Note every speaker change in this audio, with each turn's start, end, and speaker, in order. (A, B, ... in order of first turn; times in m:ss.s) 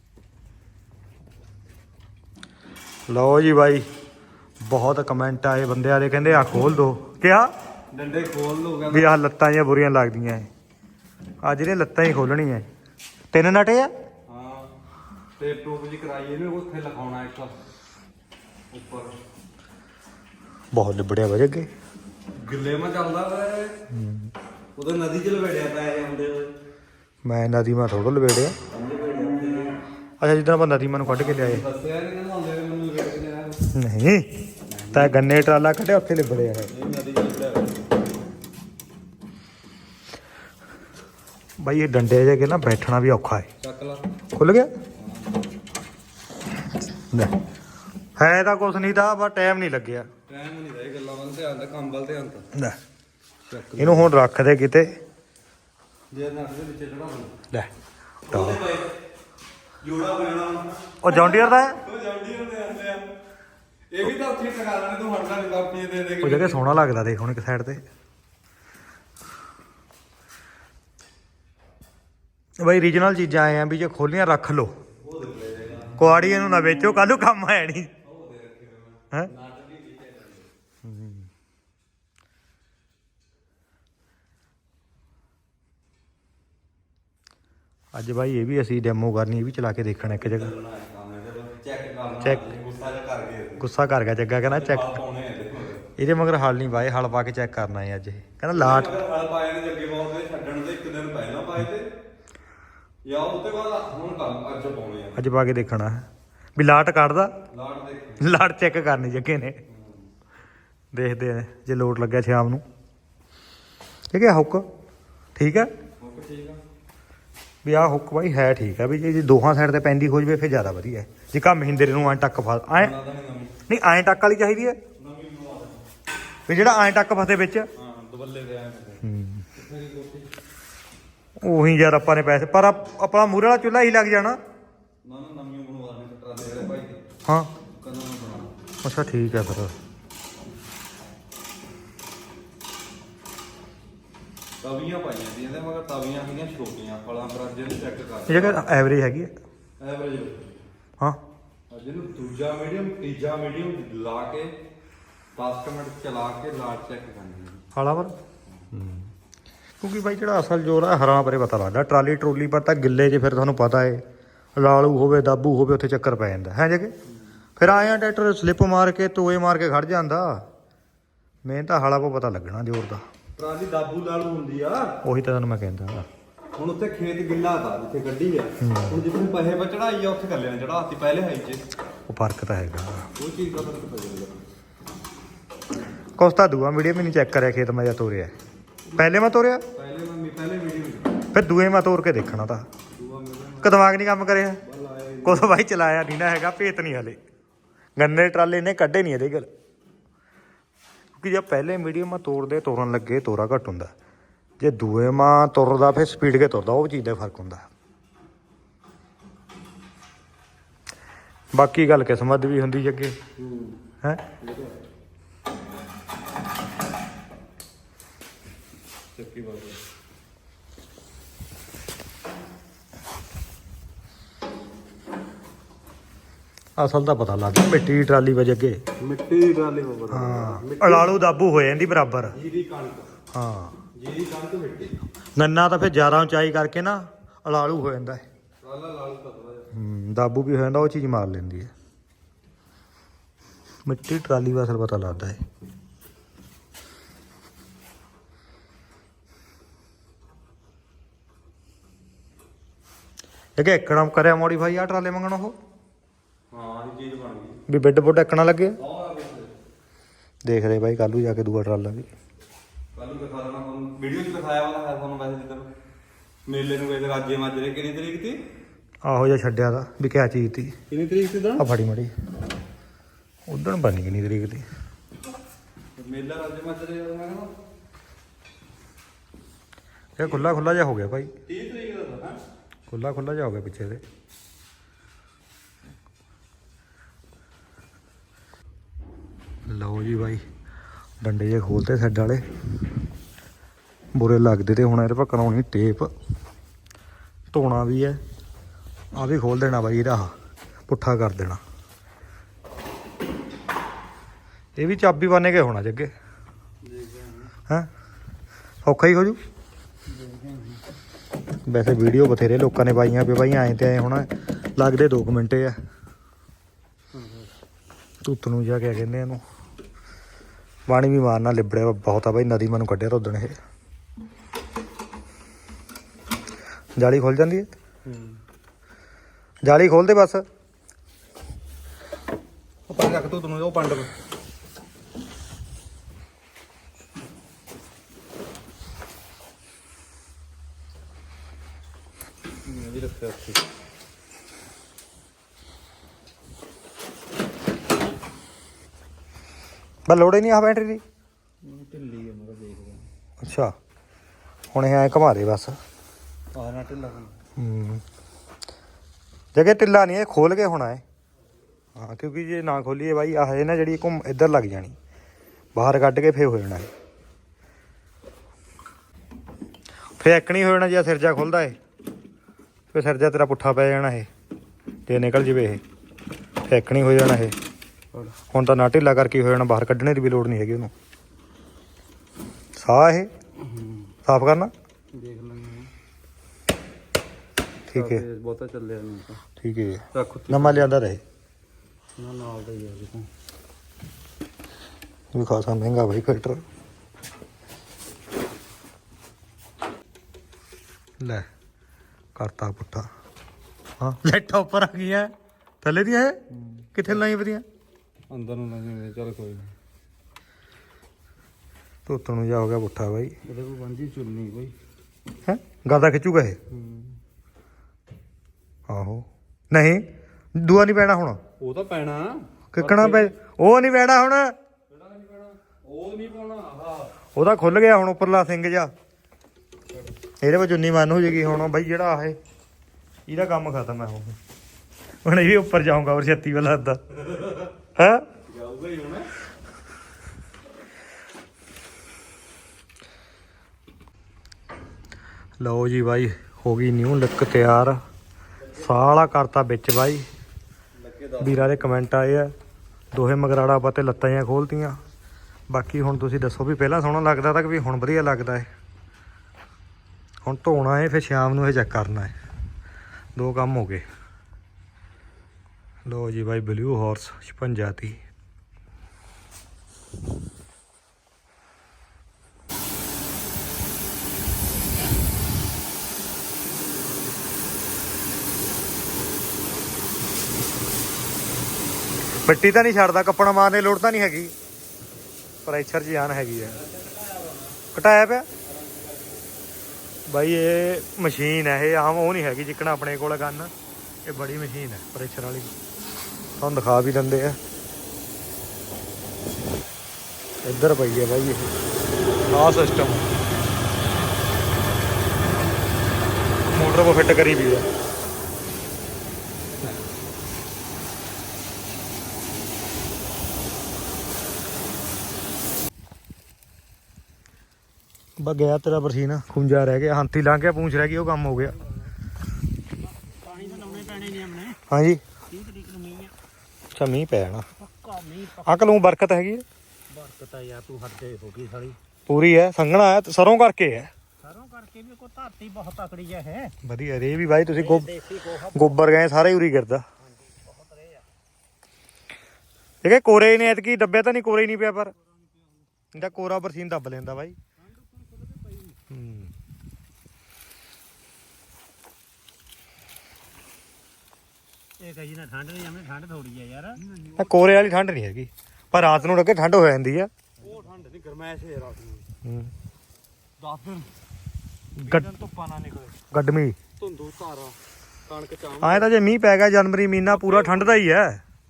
0:03.1-0:03.8 A
0:04.6-0:07.5 A
0:07.9-0:09.2 B
0:08.9-0:10.5 A
0:11.4-0:12.7 A
0:13.3-0:13.9 A
0:14.3-0:14.7 B
0:15.4-0:17.6 B
0:18.7-0:19.1 B
0:20.7-0:21.7 A
0:22.3-0:23.8 B
0:23.9-0:24.3 A
0:24.8-0:26.5 B
0:27.2-0:28.6 A
0:28.7-0:29.8 B
0:30.2-0:31.6 A
0:31.0-0:33.6 B
0:33.7-0:36.7 A
0:34.7-0:35.3 B
0:36.7-0:37.8 B
0:41.6-0:43.5 A
0:43.6-0:44.1 B
0:44.3-0:44.7 A
0:45.0-0:45.4 B
0:47.1-0:47.4 A
0:48.2-0:50.1 A
0:50.3-0:52.5 B
0:53.4-0:54.1 B
0:53.8-0:55.0 A
0:56.1-0:57.3 B
0:58.3-0:58.9 B
0:58.3-0:58.6 A
0:59.8-1:03.1 B
1:01.0-1:01.8 A
1:03.9-1:06.6 B
1:06.2-1:07.8 A
1:12.6-1:14.7 A
1:15.0-1:16.6 B
1:15.9-1:17.9 A
1:18.0-1:20.5 B
1:20.8-1:21.3 A
1:27.9-1:30.5 A
1:30.0-1:33.6 B
1:32.2-1:32.5 A
1:33.6-1:35.0 A
1:34.4-1:35.8 B
1:36.0-1:38.9 A
1:38.5-1:41.9 B
1:43.0-1:45.2 B
1:45.2-1:47.4 A
1:47.5-1:48.3 B
1:48.2-1:49.6 A
1:49.7-1:50.1 B
1:50.9-1:52.6 A
1:54.1-1:54.6 A
1:55.4-1:55.7 A
1:56.0-1:56.6 B
1:57.6-2:03.0 A
2:02.7-2:03.6 B
2:03.7-2:04.8 A
2:05.0-2:05.8 B
2:06.5-2:07.7 A
2:07.8-2:09.0 B
2:09.0-2:09.4 A
2:09.5-2:10.3 B
2:11.4-2:14.4 A
2:15.0-2:17.0 B
2:17.2-2:17.5 A
2:17.7-2:18.5 B
2:18.8-2:19.7 A
2:24.6-2:28.6 B
2:28.3-2:29.3 A
2:29.8-2:30.6 B
2:31.7-2:34.5 B
2:35.4-2:37.6 B
2:37.7-2:38.1 A
2:38.7-2:39.1 A
2:39.8-2:44.0 A
2:44.6-2:46.9 A
2:47.6-2:50.5 A
2:51.4-2:53.0 A
2:53.4-2:55.0 B
2:55.0-2:56.0 A
2:56.6-3:01.6 B
2:58.6-2:59.0 A
3:02.1-3:03.1 A
3:03.2-3:04.4 B
3:06.2-3:08.3 A
3:08.9-3:09.6 A
3:09.7-3:11.2 B
3:11.3-3:12.7 A
3:12.9-3:13.8 B
3:13.6-3:14.6 A
3:14.6-3:15.5 B
3:15.2-3:17.2 A
3:18.0-3:19.5 A
3:21.1-3:23.9 A
3:24.6-3:27.7 A
3:31.5-3:33.2 A
3:33.4-3:33.8 B
3:34.4-3:34.7 B
3:39.1-3:39.8 B
3:46.8-3:48.8 A
3:49.0-3:51.1 B
3:50.1-3:52.4 A
3:52.3-3:53.1 B
3:53.3-3:53.8 A
3:53.9-3:55.0 B
3:55.4-3:58.2 A
3:58.6-3:59.7 B
3:59.7-4:01.7 A
4:03.8-4:05.4 A
4:13.6-4:15.6 A
4:16.5-4:17.6 B
4:17.7-4:18.8 A
4:18.8-4:19.5 B
4:20.4-4:22.1 A
4:22.9-4:25.7 B
4:26.4-4:28.4 B
4:29.0-4:30.7 A
4:30.9-4:31.6 B
4:31.6-4:32.1 A
4:33.5-4:34.6 A
4:36.0-4:37.5 B
4:40.2-4:41.3 A
4:40.2-4:40.5 B
4:41.4-4:42.4 B
4:42.9-4:44.0 A
4:49.6-4:50.4 A
4:51.2-4:52.4 A
4:54.1-4:56.1 A
4:57.5-4:58.2 A
4:59.1-5:00.3 A
5:00.9-5:01.6 A
5:04.8-5:06.1 A
5:06.8-5:07.5 B
5:08.8-5:09.4 A
5:10.1-5:10.8 B
5:11.6-5:15.8 A
5:17.1-5:17.5 B
5:18.2-5:19.4 A
5:20.9-5:23.6 A
5:27.0-5:27.7 A
5:28.0-5:28.4 B
5:29.6-5:30.4 A
5:32.9-5:34.1 B
5:42.6-5:43.6 B
5:50.1-5:51.0 A
5:51.6-5:53.0 B
5:53.4-5:53.7 A
5:54.7-5:55.8 A
5:56.5-5:57.3 B
5:57.6-5:58.0 A
5:59.5-6:01.0 A
6:02.0-6:05.0 A
6:05.7-6:06.9 A
6:10.2-6:11.8 A
6:12.9-6:14.3 A
6:15.1-6:15.8 A
6:16.7-6:17.5 A
6:18.5-6:20.9 A
6:22.8-6:23.3 A
6:23.7-6:23.9 B
6:24.2-6:24.7 A
6:25.1-6:25.9 B
6:27.9-6:28.2 A
6:27.9-6:29.4 B
6:29.6-6:31.2 A
6:30.1-6:30.9 B
6:32.2-6:33.3 B
6:35.3-6:36.6 A
6:41.2-6:41.5 A
6:42.3-6:43.1 A
6:44.0-6:46.4 A
6:46.6-6:46.8 B
6:46.9-6:47.6 A
6:48.3-6:49.7 B
6:52.0-6:53.3 A
6:53.4-6:54.7 B
6:55.4-6:56.6 A
6:56.7-6:57.2 B
6:58.9-7:00.0 A
7:00.6-7:01.4 A
7:01.6-7:03.3 B
7:02.7-7:04.5 A
7:04.9-7:07.1 B
7:07.3-7:08.9 A
7:10.4-7:12.4 A
7:13.3-7:14.3 A
7:15.2-7:17.2 A
7:18.0-7:18.3 A
7:18.4-7:19.3 B
7:25.6-7:28.0 A
7:28.7-7:30.2 A
7:31.0-7:31.9 B
7:31.4-7:32.5 A
7:33.1-7:35.0 A
7:35.7-7:38.7 A
7:40.4-7:42.3 A
7:43.4-7:44.0 A
7:46.0-7:48.2 A
8:02.4-8:04.5 A
8:05.6-8:06.8 A
8:06.6-8:07.8 B
8:07.9-8:08.5 A
8:08.6-8:09.4 B
8:10.3-8:13.7 A
8:14.2-8:15.7 A
8:16.6-8:17.6 A
8:20.6-8:21.7 A
8:22.5-8:23.3 A
8:26.7-8:27.9 A
8:38.4-8:41.8 A
8:43.0-8:44.8 C
8:44.9-8:45.2 A
8:45.5-8:46.3 C
8:46.9-8:47.6 A
8:47.8-8:48.9 C
8:48.6-8:49.6 A
8:50.1-8:52.0 C
8:52.3-8:54.1 A
8:54.4-8:56.7 C
8:56.8-8:58.1 A
8:57.8-8:59.0 C
8:58.7-9:00.0 A
9:00.2-9:01.2 C
9:03.0-9:05.1 A
9:06.1-9:07.6 A
9:07.8-9:09.0 C
9:09.1-9:09.5 A
9:15.0-9:17.0 C
9:17.4-9:20.3 A
9:20.6-9:22.3 B
9:22.4-9:22.7 A
9:23.6-9:24.1 B
9:25.0-9:26.2 B
9:26.3-9:26.8 A
9:27.0-9:29.1 B
9:28.8-9:31.4 A
9:30.3-9:30.9 B